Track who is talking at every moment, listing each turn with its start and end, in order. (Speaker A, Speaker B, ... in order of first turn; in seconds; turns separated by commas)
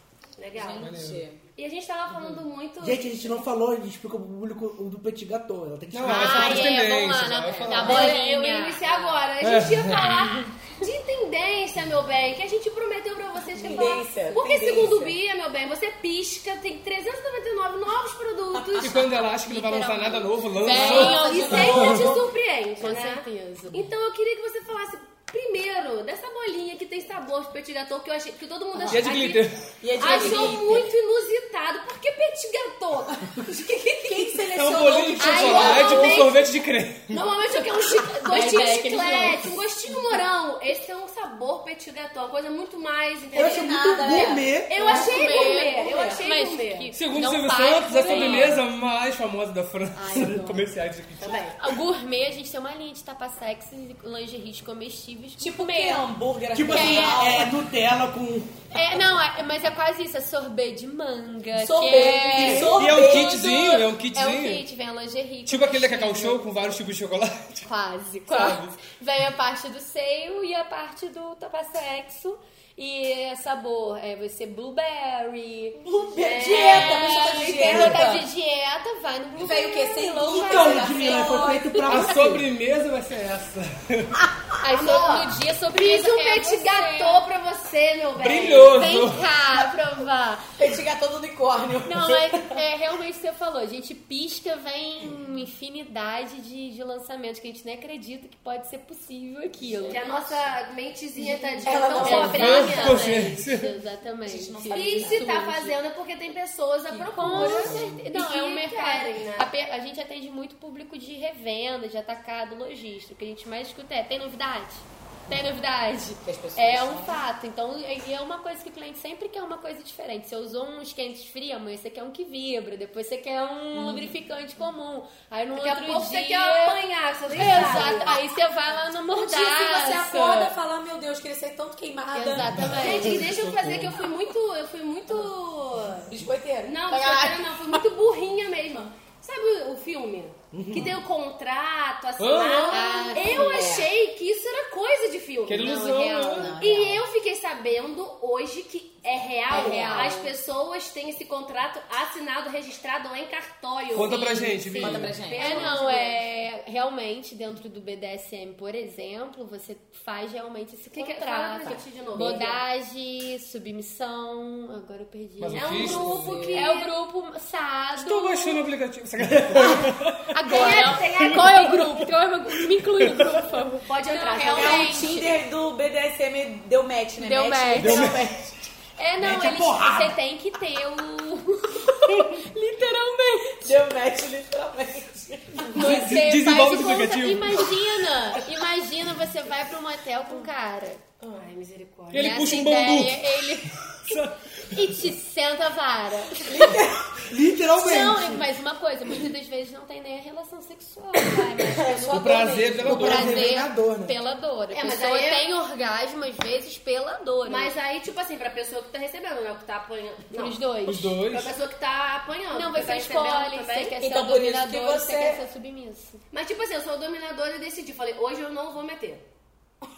Speaker A: 0.4-0.9, Speaker B: 0.5-1.4, Speaker C: 0.8-1.2, Speaker A: 1.6-3.4, Speaker C: 2.1-2.5, Speaker D: 2.8-6.6, Speaker C: 5.9-8.2, Speaker E: 6.0-8.8, Speaker B: 7.5-8.1, Speaker A: 7.8-19.0, Speaker C: 9.4-10.2, Speaker B: 13.6-15.2, Speaker B: 18.6-18.9, Speaker C: 18.8-22.1, Speaker E: 18.9-22.2, Speaker B: 20.6-22.1, Speaker A: 20.8-33.3, Speaker E: 22.8-23.9, Speaker B: 28.8-29.2, Speaker C: 28.9-29.8, Speaker B: 29.8-30.9, Speaker E: 30.0-30.6, Speaker B: 33.4-36.2, Speaker C: 34.5-37.2, Speaker E: 35.2-36.3, Speaker A: 35.4-36.5, Speaker A: 37.1-46.9, Speaker E: 38.3-39.5, Speaker D: 43.4-44.8, Speaker B: 43.4-46.2, Speaker E: 44.8-48.6, Speaker C: 46.9-51.5, Speaker E: 49.9-50.7, Speaker A: 51.2-51.6, Speaker E: 51.6-56.1, Speaker B: 55.4-57.5, Speaker D: 56.5-58.6, Speaker E: 56.7-57.3, Speaker E: 58.7-66.5, Speaker B: 61.5-63.4, Speaker D: 61.9-62.8, Speaker C: 62.8-64.6, Speaker C: 65.5-67.7, Speaker E: 67.7-75.8, Speaker C: 68.3-68.7, Speaker B: 75.8-78.3, Speaker A: 76.2-77.9, Speaker E: 76.5-82.1, Speaker B: 79.4-81.8, Speaker D: 80.2-82.5, Speaker C: 81.8-84.2, Speaker E: 84.6-87.2, Speaker A: 84.7-88.8, Speaker C: 88.2-89.3, Speaker E: 88.7-90.5, Speaker B: 90.6-92.6, Speaker E: 91.8-100.0, Speaker B: 99.6-100.4, Speaker A: 99.9-103.1, Speaker B: 101.2-102.6, Speaker E: 101.9-105.8, Speaker C: 102.0-103.7, Speaker B: 104.3-105.3, Speaker A: 104.7-109.5, Speaker B: 106.9-107.8, Speaker E: 107.2-126.8, Speaker C: 107.3-107.8, Speaker B: 116.2-117.2, Speaker A: 125.5-128.2, Speaker E: 127.3-130.5, Speaker B: 127.5-127.8, Speaker B: 129.1-132.7, Speaker E: 132.1-133.3, Speaker C: 132.5-134.0, Speaker A: 132.8-136.1, Speaker B: 136.1-137.2, Speaker A: 136.7-145.9, Speaker E: 136.9-137.3, Speaker C: 140.5-141.0, Speaker C: 142.2-142.9, Speaker E: 142.7-143.7, Speaker B: 143.1-143.9, Speaker C: 145.5-146.6, Speaker E: 145.6-146.6, Speaker B: 146.2-147.0, Speaker A: 146.6-156.2, Speaker E: 149.5-150.3, Speaker C: 153.9-155.2, Speaker E: 154.7-165.7, Speaker B: 154.8-155.7, Speaker A: 160.9-162.6, Speaker B: 161.6-162.5, Speaker C: 165.4-166.4, Speaker A: 165.5-166.9, Speaker B: 165.8-166.7, Speaker E: 166.5-168.7, Speaker C: 168.0-170.3, Speaker E: 170.3-175.4, Speaker A: 170.5-172.0, Speaker C: 172.6-173.4, Speaker A: 173.8-175.0, Speaker B: 174.4-178.5, Speaker E: 177.2-178.2, Speaker C: 177.8-178.3, Speaker E: 179.0-183.8, Speaker D: 179.2-180.2, Speaker B: 183.6-185.9, Speaker E: 185.6-191.0, Speaker C: 185.7-187.8, Speaker B: 191.2-191.5, Speaker A: 191.3-192.4, Speaker C: 192.1-195.0, Speaker E: 192.1-194.2, Speaker E: 194.7-196.8, Speaker B: 196.4-197.1, Speaker D: 197.3-198.5, Speaker E: 197.8-207.8, Speaker B: 201.7-203.0, Speaker C: 202.1-203.5, Speaker D: 202.8-204.2, Speaker A: 204.7-205.4, Speaker A: 207.4-210.6, Speaker E: 210.3-211.2, Speaker C: 210.9-211.5, Speaker A: 211.3-213.9, Speaker E: 212.5-216.2, Speaker B: 214.0-215.4, Speaker A: 216.3-219.2